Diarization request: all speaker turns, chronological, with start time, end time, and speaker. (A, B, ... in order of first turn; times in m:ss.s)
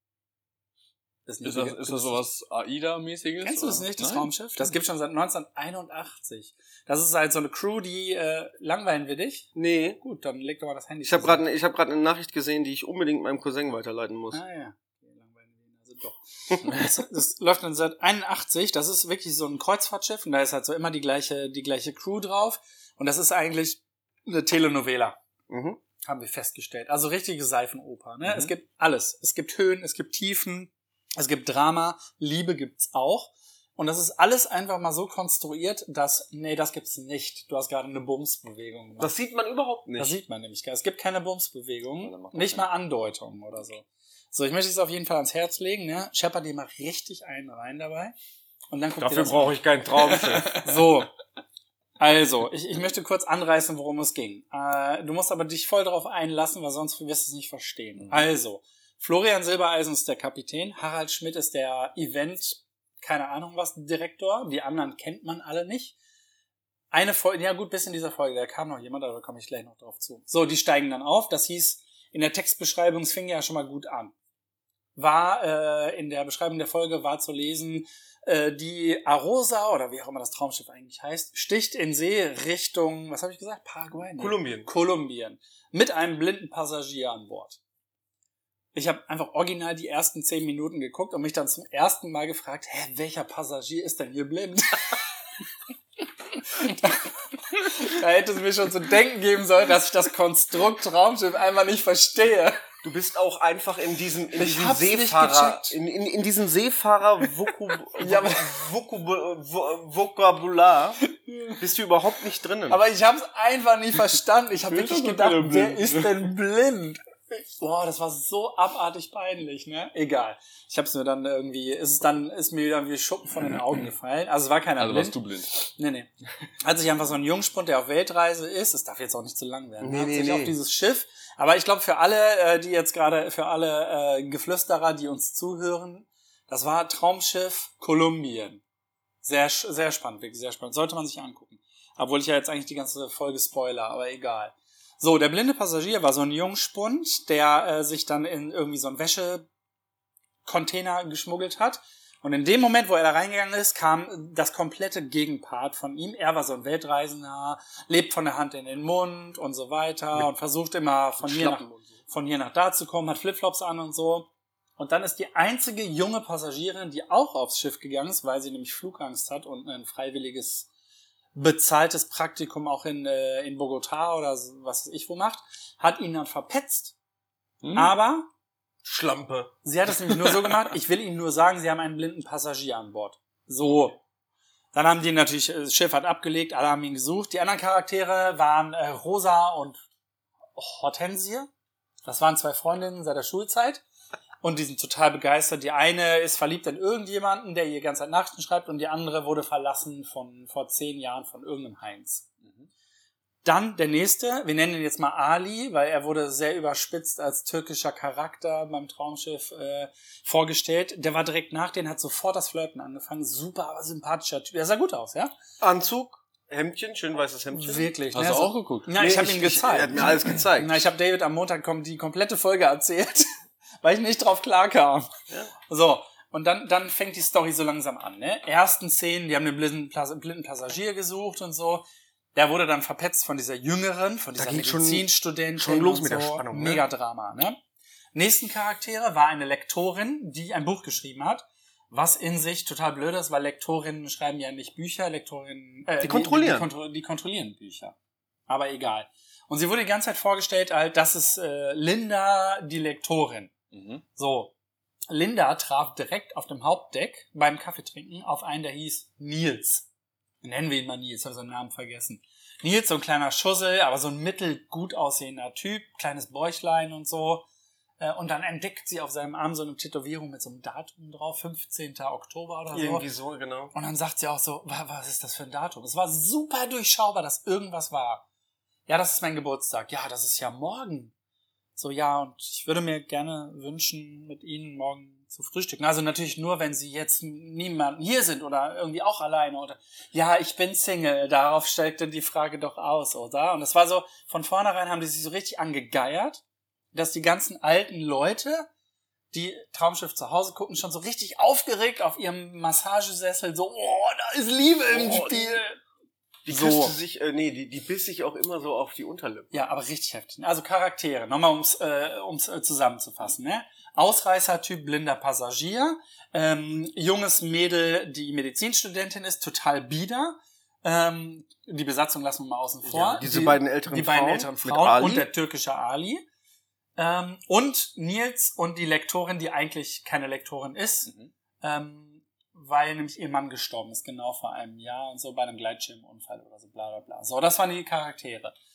0:01.3-0:02.2 A
0:01.4-0:04.3 B
0:03.4-0:09.5 A
0:09.5-0:10.0 C
0:10.0-0:11.5 A
0:11.0-0:14.4 C
0:14.3-0:25.2 A
0:25.5-0:25.8 C
0:26.0-0:39.1 A
0:39.0-0:40.2 C
0:40.0-0:48.1 A
0:42.0-0:42.7 B
0:48.7-0:51.1 A
0:49.0-0:50.6 C
0:52.0-1:06.0 A
1:06.9-1:14.1 A
1:15.0-1:27.6 A
1:24.2-1:24.7 C
1:28.7-1:35.0 A
1:36.4-1:42.6 A
1:42.8-1:51.0 C
1:44.3-1:45.8 A
1:47.9-1:48.6 A
1:51.2-1:51.6 A
1:51.6-1:52.8 C
1:52.7-2:06.1 A
1:54.7-1:56.2 B
2:04.8-2:05.5 B
2:06.6-2:18.6 A
2:09.8-2:10.5 C
2:19.2-2:29.5 A
2:30.4-2:50.7 A
2:41.2-2:42.0 C
2:51.3-2:56.9 A
2:57.6-2:57.9 B
2:57.7-2:58.3 A
2:58.8-2:59.5 C
2:59.6-3:04.0 A
3:04.7-3:09.8 A
3:10.6-3:11.5 A
3:12.1-3:13.8 A
3:14.4-3:22.2 A
3:22.4-3:22.7 B
3:23.4-3:35.3 A
3:35.6-3:37.9 C
3:37.5-3:43.3 A
3:38.1-3:38.9 B
3:39.0-3:40.8 C
3:43.8-3:45.1 A
3:45.7-3:57.6 A
3:54.4-3:56.8 C
3:58.1-4:07.9 A
4:06.0-4:06.7 C
4:08.5-4:13.5 A
4:13.7-4:14.0 B
4:14.2-4:14.5 A
4:15.1-4:19.8 A
4:20.4-4:27.4 A
4:28.0-4:33.0 A
4:32.7-4:33.7 C
4:33.7-4:38.2 A
4:38.9-4:41.1 A
4:41.8-4:56.4 A
4:56.9-4:58.7 A
4:59.3-5:05.8 A
5:04.9-5:05.6 C
5:06.4-5:09.5 C
5:06.5-5:07.0 A
5:09.5-5:26.2 A
5:22.8-5:25.3 C
5:27.0-5:31.1 A
5:31.6-5:38.5 A